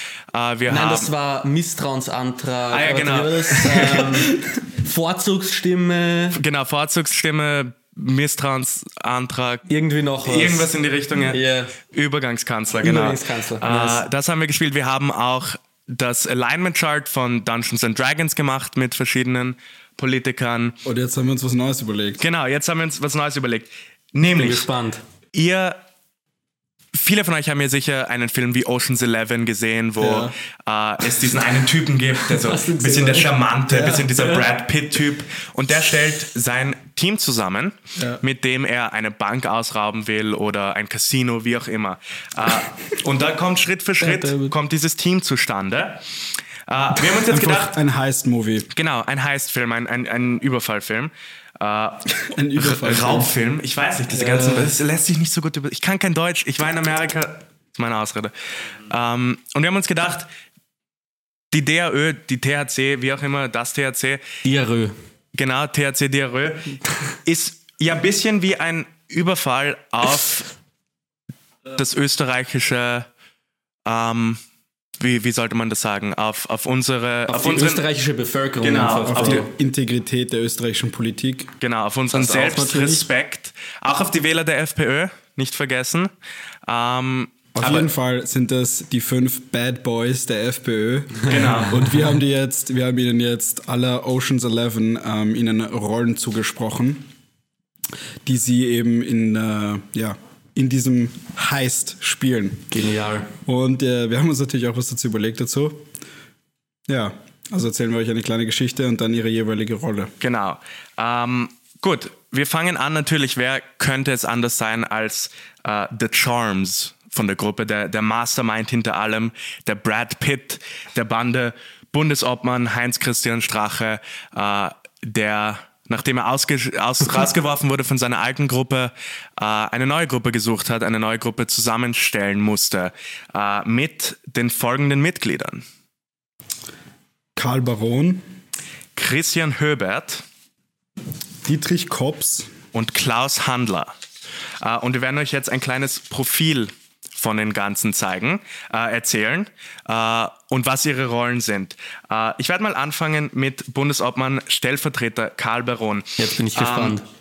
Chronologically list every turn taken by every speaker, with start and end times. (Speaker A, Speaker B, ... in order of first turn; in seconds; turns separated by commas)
Speaker A: 0.3-1.1, Speaker B: 0.7-6.4, Speaker A: 2.7-4.3, Speaker A: 6.3-9.6, Speaker B: 9.7-10.7, Speaker A: 10.2-11.4, Speaker B: 11.3-11.7, Speaker A: 11.9-20.8, Speaker B: 12.8-14.0, Speaker C: 20.8-22.2, Speaker A: 22.2-24.7, Speaker B: 24.3-25.0, Speaker A: 25.3-25.8, Speaker A: 26.9-46.0, Speaker C: 30.0-30.3, Speaker B: 32.3-34.4, Speaker C: 33.7-34.0, Speaker B: 44.0-44.5, Speaker A: 46.7-47.7, Speaker C: 47.2-48.7, Speaker A: 48.7-58.3, Speaker C: 52.3-53.3, Speaker B: 54.1-54.7, Speaker A: 58.9-60.3, Speaker A: 61.5-64.2, Speaker B: 64.4-64.9, Speaker A: 65.3-70.5, Speaker A: 71.7-73.1, Speaker A: 73.8-74.4, Speaker A: 75.0-77.8, Speaker B: 77.3-79.5, Speaker A: 78.6-79.5, Speaker C: 79.0-81.5, Speaker A: 81.6-86.1, Speaker B: 82.1-83.1, Speaker A: 86.7-87.9, Speaker C: 87.5-97.1, Speaker A: 91.2-91.9, Speaker C: 98.2-102.7, Speaker B: 102.7-103.3, Speaker C: 103.5-105.8, Speaker C: 106.9-110.1, Speaker A: 110.2-135.6, Speaker C: 137.3-138.2, Speaker A: 138.9-140.2, Speaker C: 141.4-142.5, Speaker A: 142.7-143.9, Speaker A: 144.6-157.0, Speaker B: 156.2-157.0